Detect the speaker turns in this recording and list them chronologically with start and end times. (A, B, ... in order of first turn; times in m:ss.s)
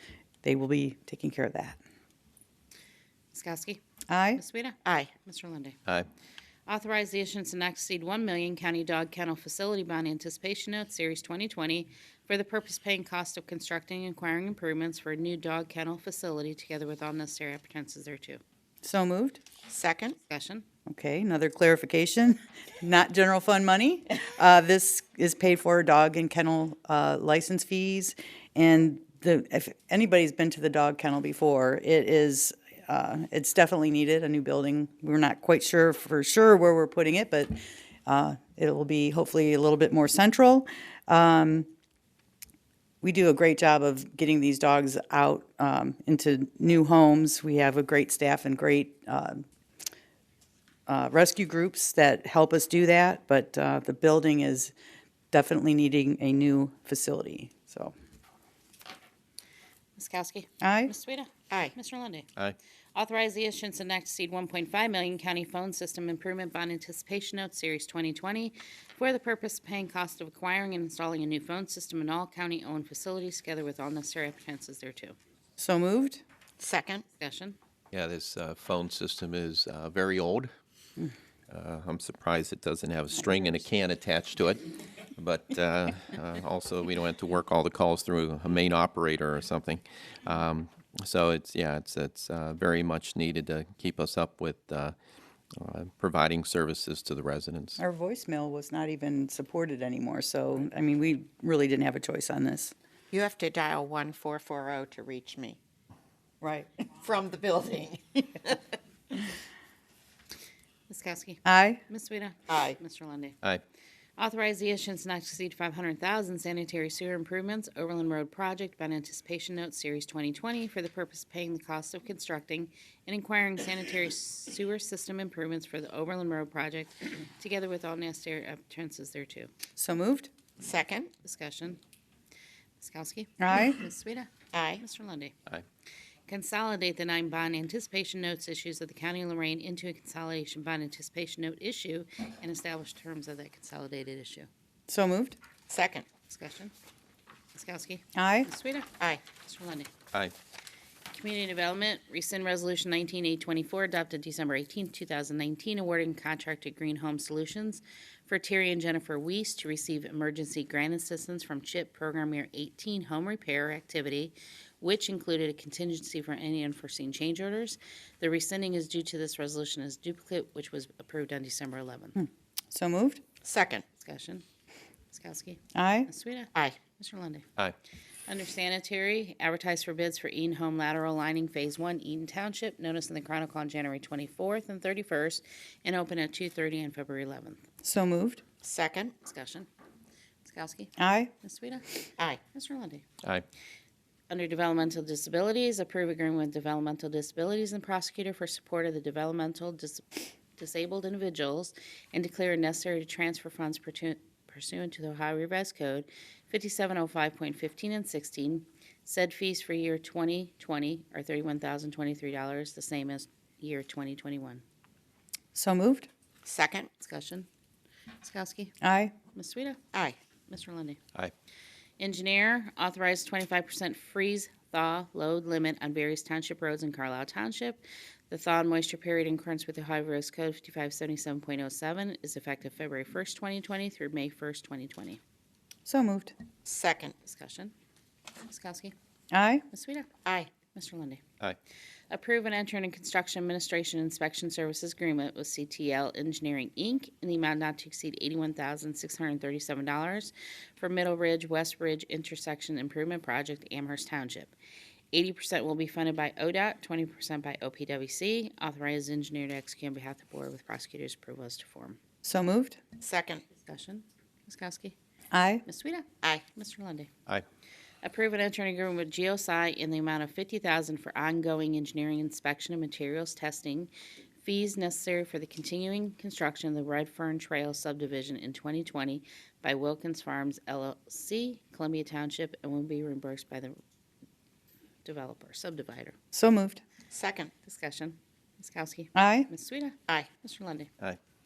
0:00.4-0:01.8 A
0:03.3-0:03.8 B
0:04.1-0:04.4 A
0:04.4-0:05.8 B
0:04.8-0:05.1 C
0:06.7-0:18.4 B
0:18.8-0:19.4 A
0:19.7-0:20.2 C
0:20.2-0:20.6 B
0:20.9-0:41.7 A
0:43.0-0:49.4 A
0:50.9-0:54.7 A
0:55.3-0:57.9 A
1:00.0-1:02.3 B
1:00.6-1:00.9 A
1:03.0-1:15.2 B
1:15.6-1:16.2 A
1:16.6-1:17.0 C
1:17.2-1:17.6 B
1:17.9-1:20.5 D
1:21.5-1:35.0 D
1:35.6-1:37.8 D
1:37.8-1:42.7 A
1:43.1-1:45.6 C
1:46.4-1:46.9 A
1:47.0-1:48.6 C
1:50.9-1:53.4 B
1:51.4-1:51.8 A
1:52.5-1:52.8 C
1:54.2-2:09.5 B
2:09.8-2:10.3 A
2:10.6-2:11.1 C
2:11.2-2:11.8 B
2:12.8-2:15.4 B
2:13.4-2:13.8 A
2:14.5-2:14.8 C
2:16.3-2:24.5 B
2:24.9-2:25.4 A
2:25.7-2:26.1 C
2:26.3-2:26.7 B
2:27.6-2:29.9 B
2:28.2-2:28.5 A
2:31.1-2:52.2 B
2:52.2-2:53.2 A
2:53.4-2:53.8 C
2:54.0-2:54.4 B
2:55.1-2:57.5 B
2:55.8-2:56.1 A
2:58.3-3:07.6 B
3:07.8-3:08.4 A
3:08.6-3:09.1 C
3:09.2-3:09.7 B
3:10.4-3:13.0 B
3:11.0-3:11.3 A
3:14.3-3:34.6 B
3:35.5-3:36.1 A
3:36.4-3:36.9 C
3:37.0-3:37.5 B
3:38.2-3:38.8 B
3:38.8-3:39.1 A
3:39.3-3:39.8 B
3:40.5-3:41.0 B
3:42.0-3:55.2 B
3:55.9-3:56.3 A
3:56.6-3:57.1 C
3:57.2-3:57.7 B
3:58.5-3:58.9 B
3:59.3-3:59.6 A
3:59.7-4:00.1 B
4:00.2-4:00.5 C
4:00.7-4:01.2 B
4:02.1-4:14.5 B
4:15.1-4:22.0 B
4:22.2-4:22.8 A
4:23.0-4:23.4 C
4:23.6-4:25.0 B
4:25.3-4:25.6 A
4:25.7-4:27.1 B
4:28.0-4:33.9 B
4:34.4-4:43.8 B
4:45.0-4:46.2 B
4:46.3-4:46.8 A
4:47.1-4:47.5 C
4:47.6-4:50.9 B
4:49.2-4:49.5 A